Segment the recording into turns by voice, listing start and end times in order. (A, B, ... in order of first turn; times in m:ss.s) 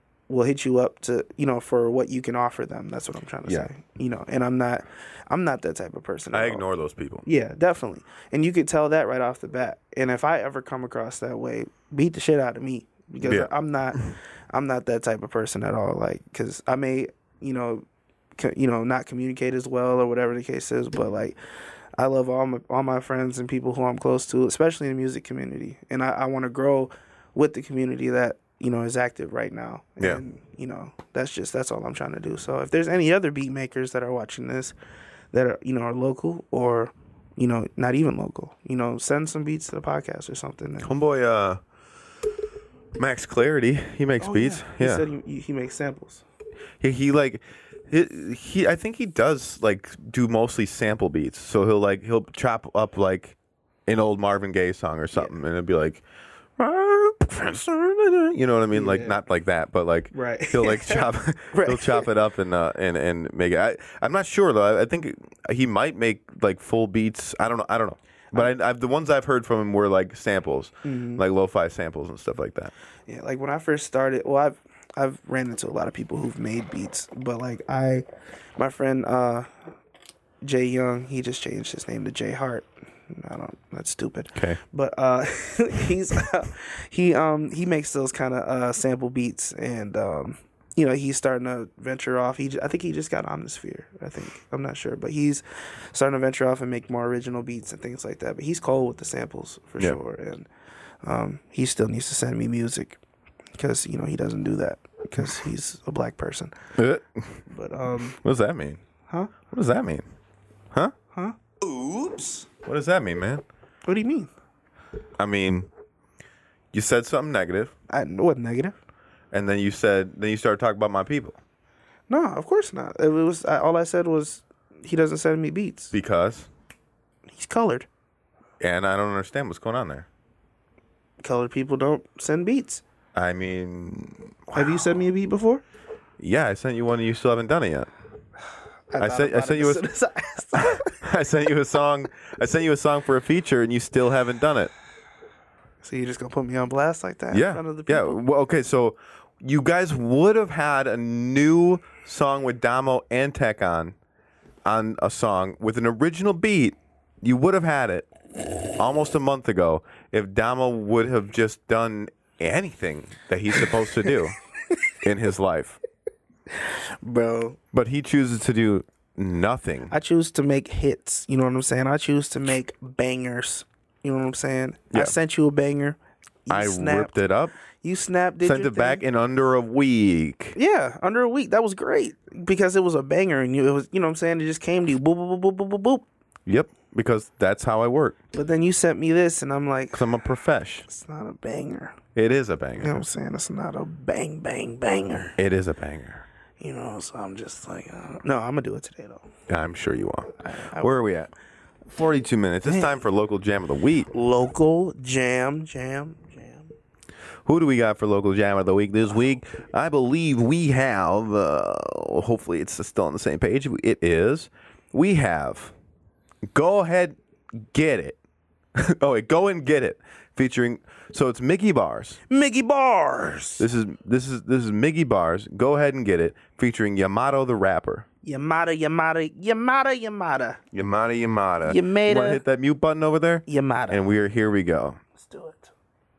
0:00.3-0:06.6 A
0:06.3-0:07.2 B
0:07.2-0:14.0 A
0:13.2-0:13.5 B
0:14.5-0:17.8 A
0:18.4-0:21.4 A
0:22.0-0:34.7 A
0:35.3-0:40.9 A
0:40.8-0:41.6 B
0:42.9-0:45.0 B
0:44.2-0:46.2 A
0:46.8-0:56.0 B
0:56.6-1:12.7 B
0:58.7-0:59.2 A
1:00.1-1:02.1 A
1:10.8-1:11.2 A
1:13.1-1:18.0 A
1:18.6-1:19.5 A
1:20.4-1:40.5 A
1:41.0-1:43.0 A
1:43.5-1:46.5 A
1:46.8-1:47.4 B
1:47.5-1:48.2 A
1:48.2-1:48.8 B
1:49.5-1:50.0 B
1:51.1-1:51.4 A
1:51.6-1:53.4 B
1:53.8-1:54.3 A
1:55.2-1:55.7 B
1:56.7-1:57.7 B
1:57.9-1:58.7 A
1:59.3-2:01.4 B
2:02.1-2:05.9 A
2:05.9-2:06.5 B
2:07.3-2:07.9 A
2:08.6-2:10.1 B
2:11.2-2:12.8 A
2:13.1-2:14.8 B
2:14.5-2:15.6 A
2:16.2-2:17.9 B
2:18.9-2:20.9 A
2:19.0-2:19.8 B
2:20.5-2:24.7 B
2:25.8-2:28.2 A
2:27.3-2:34.0 B
2:34.6-2:38.1 B
2:38.8-2:44.4 B
2:45.0-2:45.8 B
2:46.5-2:47.6 A
2:47.7-2:49.9 B
2:49.9-2:57.1 A
2:56.5-2:57.5 B
2:57.8-2:59.0 A
2:58.4-3:00.6 B
3:00.6-3:06.0 A
3:06.4-3:08.2 B
3:08.3-3:10.0 A
3:09.9-3:10.8 B
3:10.9-3:12.0 A
3:12.1-3:13.0 B
3:12.8-3:15.4 A
3:15.4-3:16.2 B
3:16.6-3:19.2 A
3:19.5-3:21.3 B
3:20.4-3:20.9 A
3:21.9-3:24.1 B
3:22.6-3:22.9 A
3:24.1-3:26.7 A
3:27.4-3:35.7 B
3:36.5-3:37.2 B
3:37.7-3:38.2 B
3:38.8-3:42.2 B
3:42.3-3:43.7 A
3:43.6-3:48.0 B
3:48.2-3:50.6 A
3:50.7-3:55.0 B
3:51.6-3:52.4 A
3:53.5-3:54.0 A
3:55.2-3:55.7 A